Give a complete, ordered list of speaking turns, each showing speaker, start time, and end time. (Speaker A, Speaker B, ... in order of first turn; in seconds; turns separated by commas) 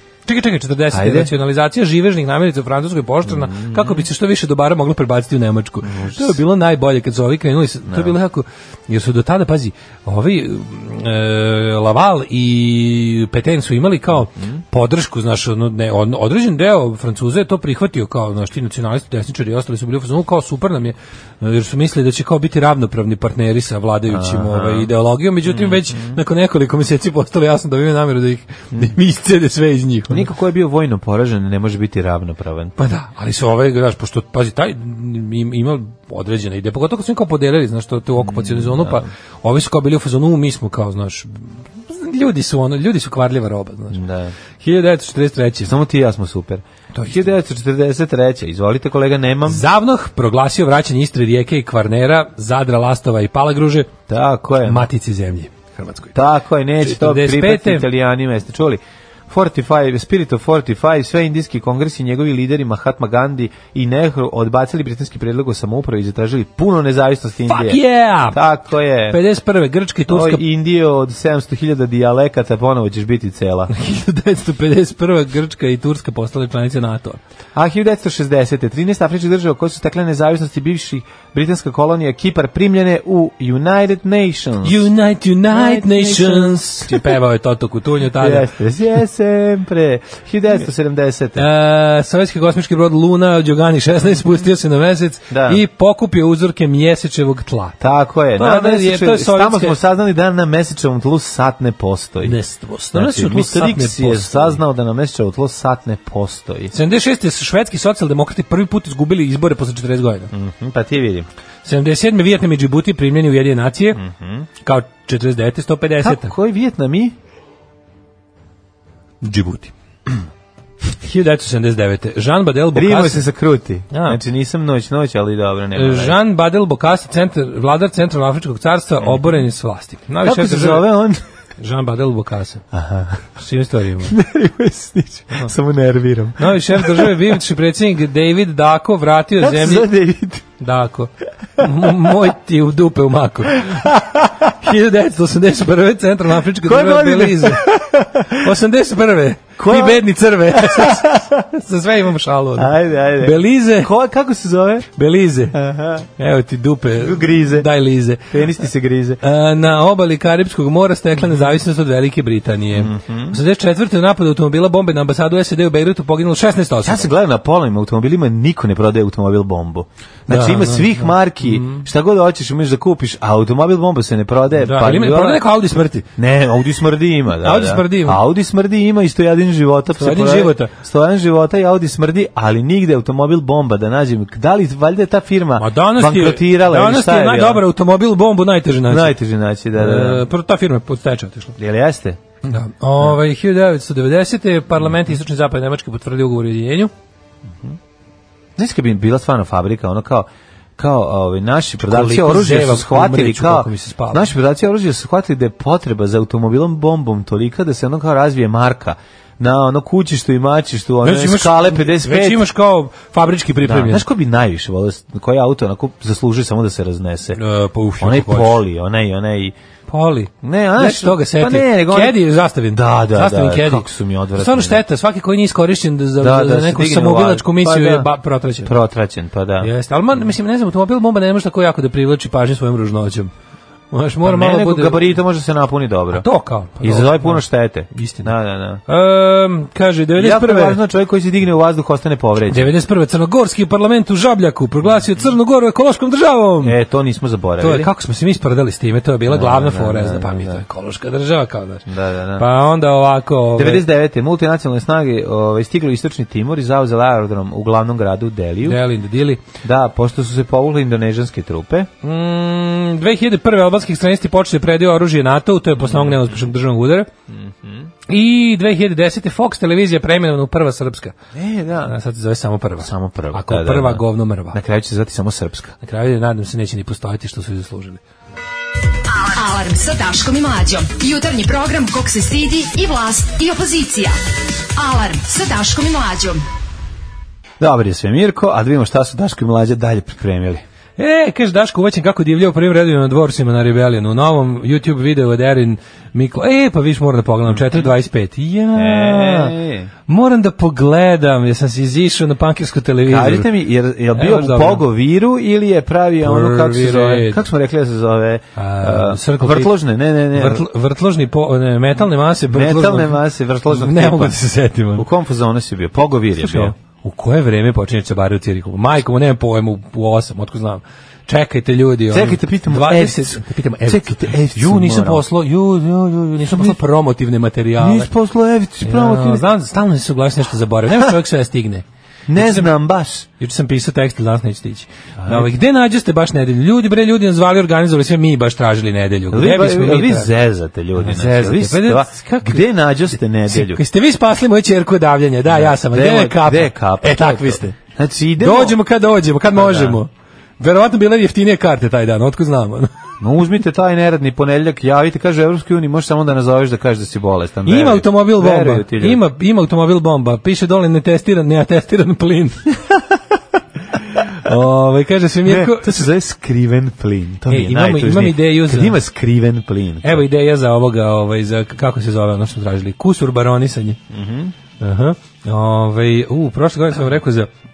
Speaker A: 0.2-30.3, Speaker B: 0.9-1.3, Speaker B: 3.2-4.1, Speaker B: 5.8-6.4, Speaker B: 7.9-8.2, Speaker B: 14.3-14.6, Speaker B: 24.1-24.9, Speaker B: 25.4-26.2, Speaker B: 30.1-32.7, Speaker A: 32.8-44.0, Speaker B: 38.2-39.1, Speaker B: 43.9-44.3, Speaker A: 44.6-45.7, Speaker B: 45.6-49.6, Speaker A: 46.9-47.3, Speaker A: 49.5-53.9, Speaker B: 54.1-54.9, Speaker A: 54.6-56.2, Speaker B: 56.1-69.2, Speaker A: 56.8-57.9, Speaker A: 67.5-68.4, Speaker A: 69.1-70.4, Speaker B: 70.1-73.7, Speaker A: 73.7-77.2, Speaker B: 77.5-84.9, Speaker A: 84.6-88.5, Speaker B: 85.5-87.1, Speaker B: 88.2-91.4, Speaker A: 91.3-97.8, Speaker B: 95.3-95.6, Speaker B: 97.8-102.3, Speaker A: 98.4-99.8, Speaker A: 102.2-104.6, Speaker B: 102.9-106.7, Speaker A: 106.7-110.3, Speaker B: 110.3-111.3, Speaker A: 111.6-114.0, Speaker B: 113.9-114.5, Speaker A: 114.6-116.3, Speaker B: 116.0-117.1, Speaker A: 119.2-119.7, Speaker A: 121.0-123.3, Speaker B: 122.7-126.2, Speaker A: 123.9-124.2, Speaker A: 125.7-130.9, Speaker B: 130.2-131.2, Speaker A: 131.6-132.6, Speaker B: 132.7-133.3, Speaker A: 133.4-134.1, Speaker B: 134.0-137.3, Speaker A: 136.4-139.9, Speaker B: 139.4-140.4, Speaker A: 140.6-143.9, Speaker B: 141.6-141.9, Speaker B: 143.6-144.5, Speaker A: 144.6-147.6, Speaker B: 146.6-148.4, Speaker A: 148.3-153.9, Speaker B: 149.6-151.4, Speaker B: 152.6-154.9, Speaker A: 154.9-155.6, Speaker B: 155.5-156.1, Speaker A: 156.2-158.3, Speaker B: 157.0-157.7, Speaker B: 158.3-159.2, Speaker A: 159.2-167.1, Speaker B: 162.7-163.4, Speaker B: 166.8-175.4, Speaker A: 170.3-171.8, Speaker A: 174.6-176.1, Speaker B: 176.2-187.6, Speaker A: 177.4-178.2, Speaker A: 180.0-180.7, Speaker A: 185.6-189.2, Speaker B: 188.9-190.2, Speaker A: 189.7-191.6, Speaker B: 191.6-192.2, Speaker A: 192.4-196.9, Speaker B: 198.6-212.5, Speaker A: 201.8-204.3, Speaker A: 211.0-214.0, Speaker B: 213.6-217.4, Speaker A: 217.3-218.6, Speaker B: 218.0-219.5, Speaker A: 219.9-228.7, Speaker B: 220.4-224.8, Speaker B: 226.2-228.1, Speaker B: 228.6-229.7, Speaker A: 229.6-233.3, Speaker A: 233.9-235.2, Speaker B: 234.2-236.3, Speaker A: 236.1-238.3, Speaker B: 236.8-238.8, Speaker A: 238.9-240.8, Speaker B: 240.2-242.7, Speaker A: 242.5-246.8, Speaker B: 246.6-247.9, Speaker A: 247.6-251.8, Speaker B: 249.3-250.6, Speaker B: 251.9-252.5, Speaker A: 252.4-253.8, Speaker B: 253.6-258.8, Speaker A: 258.6-259.4, Speaker B: 259.6-261.9, Speaker A: 262.0-267.1, Speaker B: 265.8-266.4, Speaker B: 267.3-267.9, Speaker A: 268.1-271.1, Speaker B: 271.3-271.9, Speaker A: 271.8-274.6, Speaker B: 272.8-275.7, Speaker A: 275.8-278.0, Speaker C: 279.1-284.1, Speaker C: 284.8-286.4, Speaker B: 287.6-290.6, Speaker A: 291.0-299.6, Speaker B: 297.5-297.9, Speaker B: 298.7-299.9, Speaker A: 300.1-303.5, Speaker B: 303.1-310.6, Speaker A: 304.1-304.8, Speaker A: 306.2-307.4, Speaker A: 308.6-309.8, Speaker A: 310.3-315.1, Speaker B: 312.5-314.4, Speaker B: 314.9-316.7, Speaker A: 316.4-328.1, Speaker B: 322.1-325.2, Speaker B: 326.5-326.8, Speaker B: 327.8-329.5, Speaker A: 328.8-332.7, Speaker B: 332.3-333.3, Speaker A: 333.4-340.3, Speaker B: 335.2-335.5, Speaker B: 339.3-343.8, Speaker A: 341.0-342.6, Speaker A: 343.5-347.8, Speaker B: 345.5-348.8, Speaker A: 348.4-352.9, Speaker B: 349.5-350.0, Speaker B: 353.2-359.2, Speaker A: 357.6-362.6, Speaker A: 364.4-366.1, Speaker B: 365.4-370.2, Speaker A: 367.5-369.0, Speaker A: 370.0-374.0, Speaker B: 374.1-374.5, Speaker A: 374.8-377.5